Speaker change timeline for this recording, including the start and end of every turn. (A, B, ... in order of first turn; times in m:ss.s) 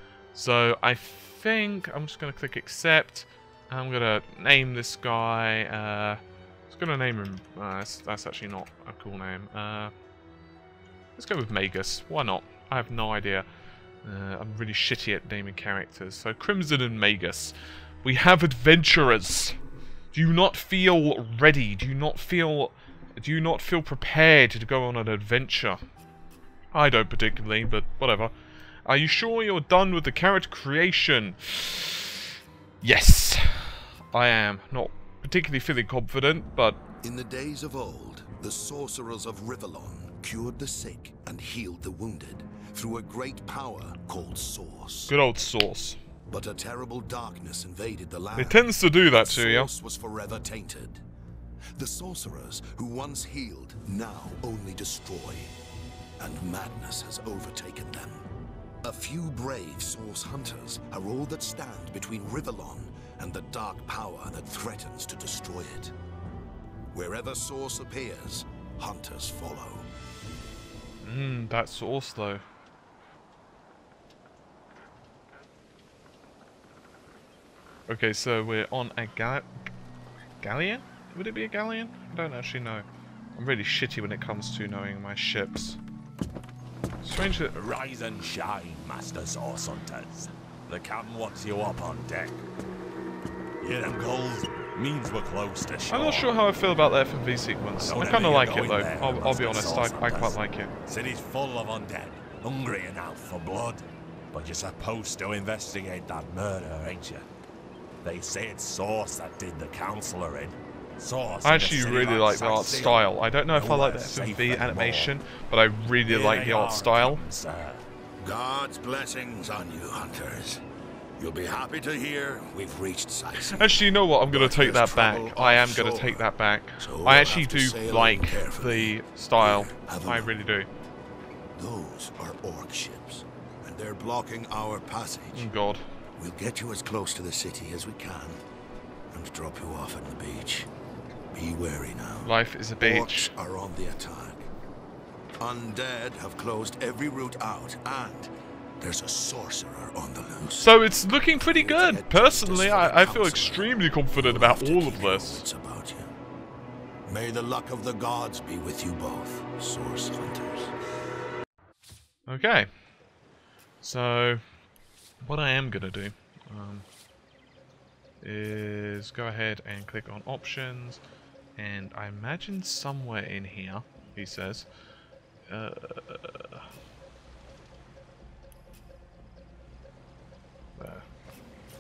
0:00.3-0:09.9 A
0:11.2-0:13.5 A
0:14.0-0:19.6 A
0:20.1-0:25.8 A
0:26.7-0:28.3 A
0:28.8-0:32.2 A
0:32.8-0:36.8 A
0:37.0-0:45.1 B
0:45.1-0:46.0 A
0:46.3-0:51.0 B
0:48.3-0:49.7 A
0:51.7-0:55.5 B
0:56.2-0:58.2 B
0:58.8-1:05.9 B
1:06.9-1:09.9 B
1:11.0-1:12.4 A
1:17.9-1:19.5 A
1:20.4-1:25.8 A
1:27.0-1:27.6 A
1:27.4-1:32.4 C
1:33.6-1:36.3 C
1:35.9-1:40.7 A
1:37.8-1:47.2 C
1:48.0-1:55.1 C
1:51.4-1:57.2 A
1:56.0-1:57.8 C
1:58.2-2:00.6 B
2:01.2-2:06.3 B
2:03.3-2:10.7 A
2:06.8-2:10.3 B
2:11.5-2:15.5 B
2:15.3-2:15.8 A
2:16.2-2:18.4 B
2:19.1-2:20.7 B
2:21.3-2:24.5 B
2:22.2-2:23.3 A
2:25.4-2:36.1 B
2:30.6-2:35.4 A
2:37.0-2:40.7 B
2:42.3-2:42.7 A
2:43.8-2:44.4 A
2:45.2-2:46.8 A
2:48.2-2:51.0 A
2:51.6-2:54.7 A
2:55.5-2:56.7 A
3:00.8-3:01.0 A